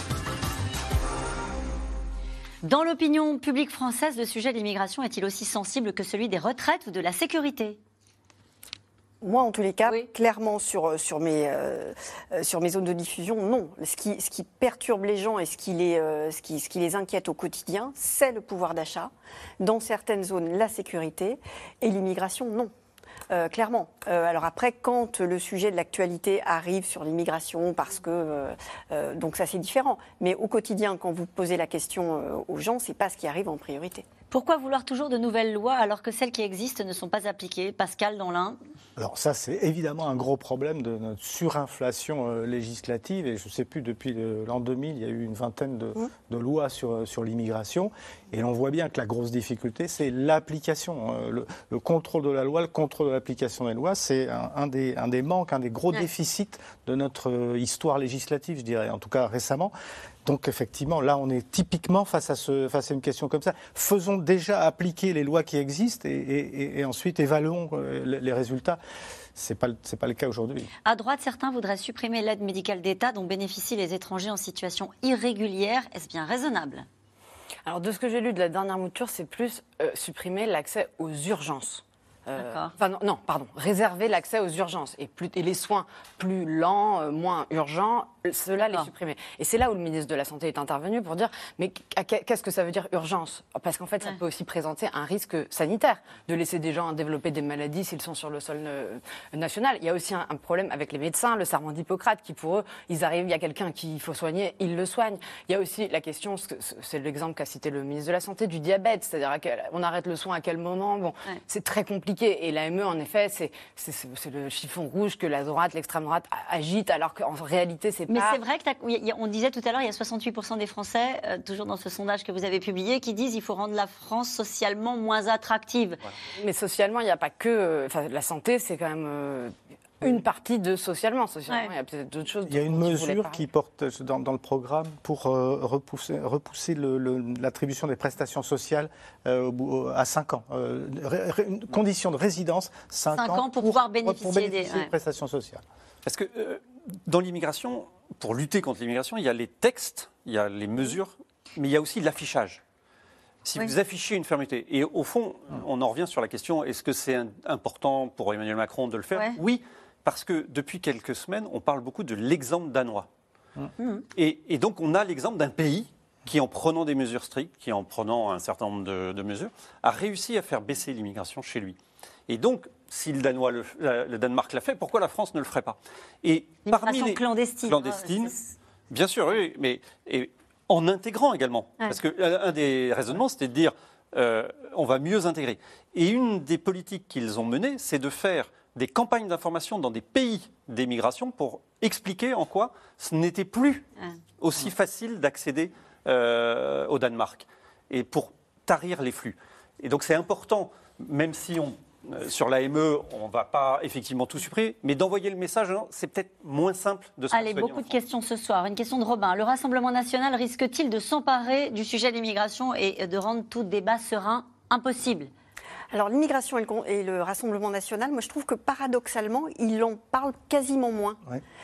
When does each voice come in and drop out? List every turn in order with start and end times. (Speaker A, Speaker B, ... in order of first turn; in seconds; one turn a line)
Speaker A: 2.6-7.8
Speaker B: 9.2-22.7
Speaker B: 23.3-34.0
Speaker A: 34.3-38.6
Speaker C: 39.0-59.7
Speaker C: 60.2-68.8
Speaker C: 69.4-70.7
Speaker A: 70.8-76.9
Speaker D: 77.7-118.4
Speaker A: 82.4-82.7
Speaker A: 88.6-88.9
Speaker A: 118.1-126.1
Speaker D: 126.3-133.5
Speaker C: 132.5-145.6
Speaker A: 143.1-144.9
Speaker E: 146.1-152.6
Speaker E: 153.4-163.1
Speaker A: 163.8-164.0
Speaker E: 164.2-171.8
Speaker E: 172.3-178.3
Speaker A: 176.7-178.5
Speaker E: 178.9-193.8
Speaker E: 194.4-207.9
Speaker A: 207.3-215.3
Speaker B: 215.9-221.2